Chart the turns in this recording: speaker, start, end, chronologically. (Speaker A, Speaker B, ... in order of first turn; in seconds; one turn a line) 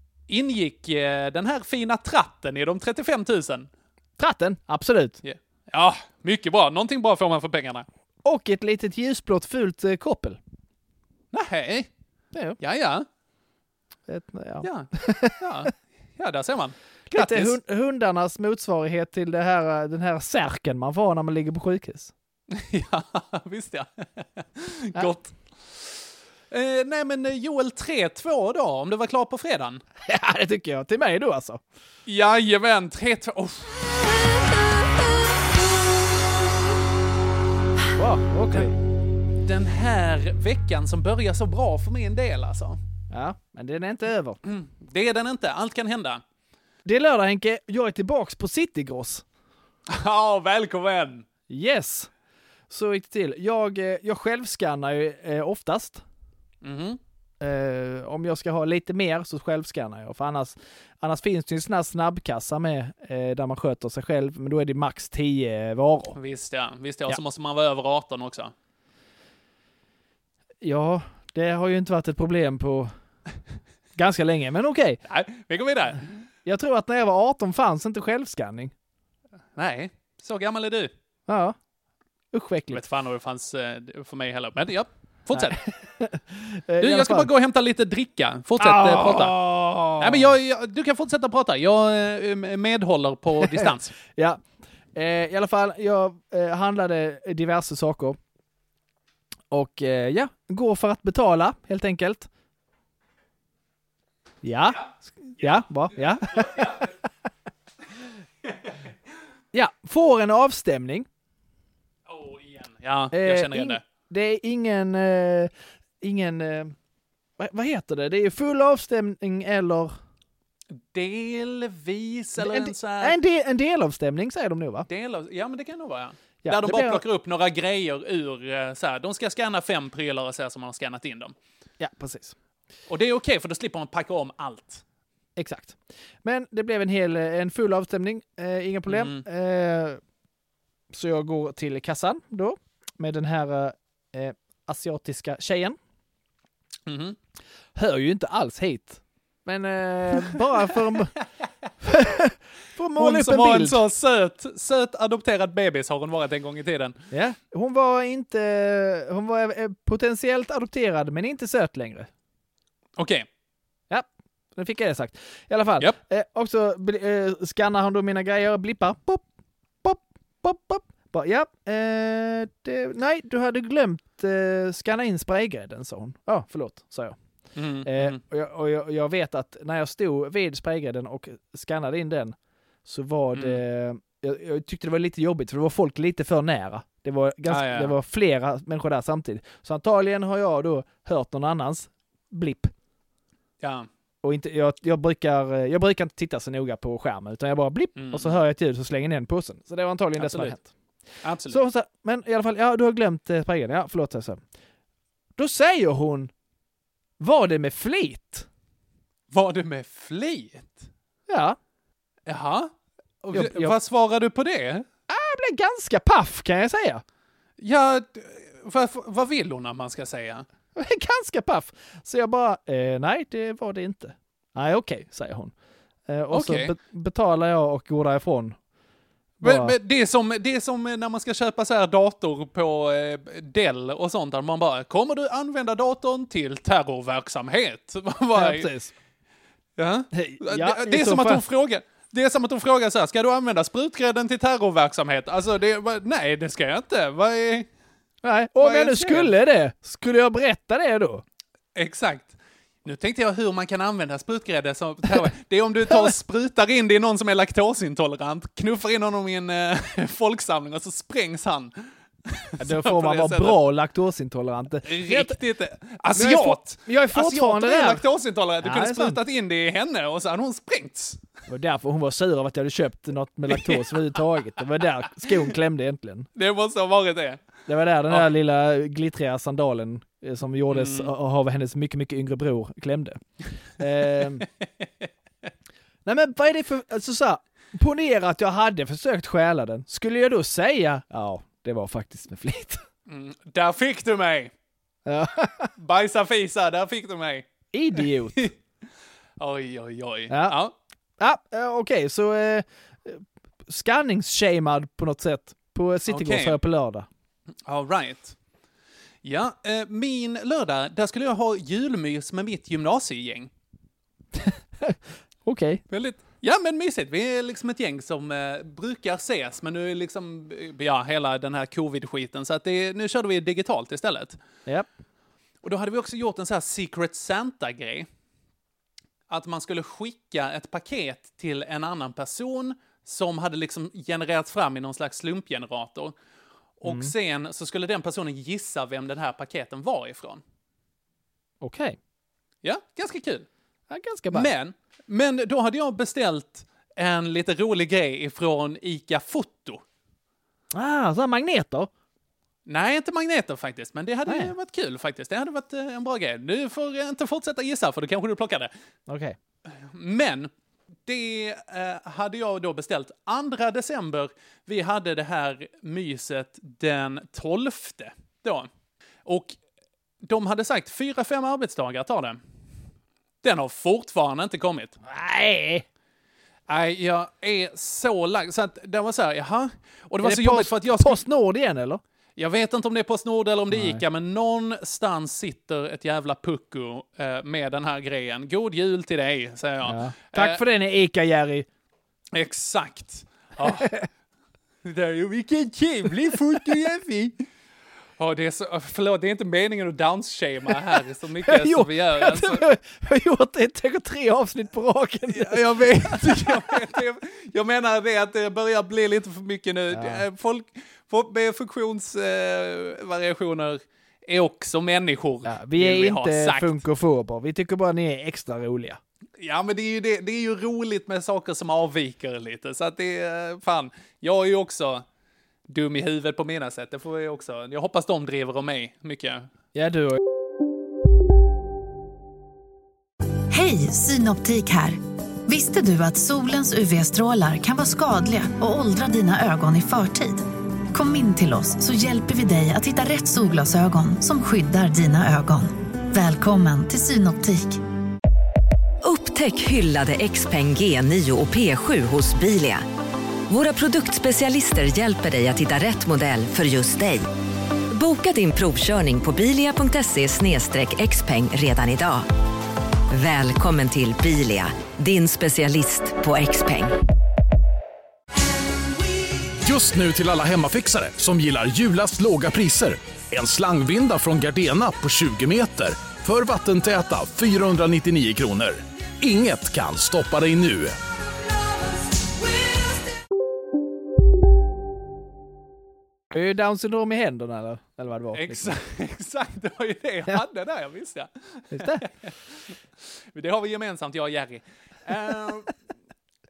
Speaker A: 0.3-3.7
Speaker B: 4.2-5.2
Speaker A: 5.2-7.9
Speaker B: 8.2-10.4
Speaker A: 11.3-11.9
Speaker B: 12.3-12.6
Speaker A: 12.6-13.1
Speaker B: 14.1-15.4
Speaker A: 14.6-17.6
Speaker B: 17.1-22.1
Speaker A: 22.5-25.9
Speaker A: 26.5-29.8
Speaker B: 30.1-31.6
Speaker A: 32.1-33.7
Speaker B: 38.0-38.7
Speaker A: 39.4-42.8
Speaker B: 43.1-44.4
Speaker A: 44.4-46.2
Speaker B: 46.9-49.2
Speaker A: 49.9-51.3
Speaker B: 51.5-52.1
Speaker B: 52.7-56.0
Speaker A: 56.6-57.0
Speaker B: 57.4-66.2
Speaker A: 66.2-68.5
Speaker B: 70.6-72.9
Speaker B: 74.0-75.0
Speaker A: 75.0-76.2
Speaker B: 76.5-78.7
Speaker A: 79.6-80.9
Speaker B: 81.3-81.6
Speaker B: 82.3-82.8
Speaker A: 82.7-85.6
Speaker B: 85.3-87.3
Speaker A: 86.8-89.4
Speaker B: 88.6-90.3
Speaker A: 90.0-93.9
Speaker B: 93.4-94.4
Speaker B: 94.9-98.2
Speaker B: 99.5-102.3
Speaker B: 104.4-106.7
Speaker A: 105.4-106.9
Speaker A: 108.5-108.8
Speaker B: 109.5-111.1
Speaker A: 112.1-113.8
Speaker B: 113.1-116.8
Speaker B: 117.4-120.0
Speaker A: 120.7-123.2
Speaker B: 122.4-124.9
Speaker A: 124.9-131.3
Speaker B: 126.4-127.0
Speaker B: 131.8-132.3
Speaker A: 132.9-134.8
Speaker B: 135.4-140.0
Speaker A: 138.9-139.2
Speaker B: 140.9-145.8
Speaker A: 146.9-147.2
Speaker B: 147.8-151.1
Speaker B: 151.8-153.8
Speaker A: 153.0-157.0
Speaker B: 157.1-162.1
Speaker A: 163.0-163.3
Speaker B: 163.9-169.2
Speaker B: 169.8-177.2
Speaker A: 177.6-178.2
Speaker B: 177.8-192.7
Speaker A: 183.3-183.6
Speaker A: 187.5-187.9
Speaker A: 193.6-193.9
Speaker B: 194.2-200.7
Speaker A: 198.0-198.4
Speaker A: 200.2-200.6
Speaker A: 201.2-201.6
Speaker B: 201.5-204.4
Speaker B: 205.4-206.3
Speaker B: 207.2-208.5
Speaker A: 209.3-210.9
Speaker B: 211.3-211.6
Speaker A: 212.3-214.9
Speaker B: 213.3-213.7
Speaker B: 215.1-217.0
Speaker A: 217.6-220.4
Speaker B: 220.8-225.5
Speaker B: 226.1-228.6
Speaker A: 226.3-226.7
Speaker A: 229.4-238.7
Speaker B: 229.4-229.8
Speaker B: 238.4-238.9
Speaker A: 239.8-247.7
Speaker B: 240.1-241.4
Speaker B: 248.2-251.2
Speaker A: 248.6-249.3
Speaker A: 251.8-261.7
Speaker A: 262.3-263.6
Speaker B: 262.6-265.4
Speaker A: 264.8-271.2
Speaker B: 266.1-268.1
Speaker B: 268.6-269.2
Speaker B: 271.5-276.3
Speaker A: 273.5-274.0
Speaker A: 276.4-277.4
Speaker B: 277.7-284.4
Speaker A: 280.7-281.1
Speaker B: 286.1-292.8
Speaker A: 293.1-294.5
Speaker B: 295.1-295.7
Speaker A: 295.8-298.5
Speaker B: 297.7-298.5
Speaker A: 299.4-300.7
Speaker B: 300.3-300.6
Speaker B: 301.2-307.1
Speaker A: 306.1-306.6
Speaker A: 307.7-308.4
Speaker A: 309.2-313.5
Speaker B: 314.4-315.8
Speaker A: 315.9-324.4
Speaker A: 325.6-328.1
Speaker A: 329.3-336.1
Speaker A: 336.8-340.4
Speaker B: 336.9-337.1
Speaker B: 341.6-342.0
Speaker A: 342.6-343.5
Speaker B: 343.9-344.5
Speaker A: 344.3-349.8
Speaker B: 350.7-351.9
Speaker A: 352.7-358.7
Speaker B: 354.3-354.5
Speaker B: 359.1-359.4
Speaker A: 359.7-360.5
Speaker A: 361.1-368.7
Speaker A: 369.3-369.6
Speaker A: 370.2-372.4
Speaker A: 373.4-375.0
Speaker B: 375.0-375.9
Speaker A: 376.7-381.2
Speaker B: 380.2-382.0
Speaker A: 382.4-390.6
Speaker B: 383.7-384.0
Speaker B: 389.9-391.7
Speaker A: 392.3-393.9
Speaker B: 393.6-394.1
Speaker A: 394.8-397.4
Speaker A: 398.2-402.6
Speaker B: 401.5-406.8
Speaker A: 405.3-416.8
Speaker B: 409.9-410.2
Speaker B: 415.4-419.0
Speaker A: 419.4-425.1
Speaker A: 425.7-429.5
Speaker B: 429.7-430.2
Speaker C: 433.5-447.8
Speaker D: 449.0-452.8
Speaker D: 453.5-457.3
Speaker D: 457.9-462.3
Speaker D: 463.1-466.9
Speaker E: 469.6-480.9
Speaker B: 486.3-488.8
Speaker A: 488.3-492.8
Speaker B: 491.7-492.1
Speaker A: 493.3-495.8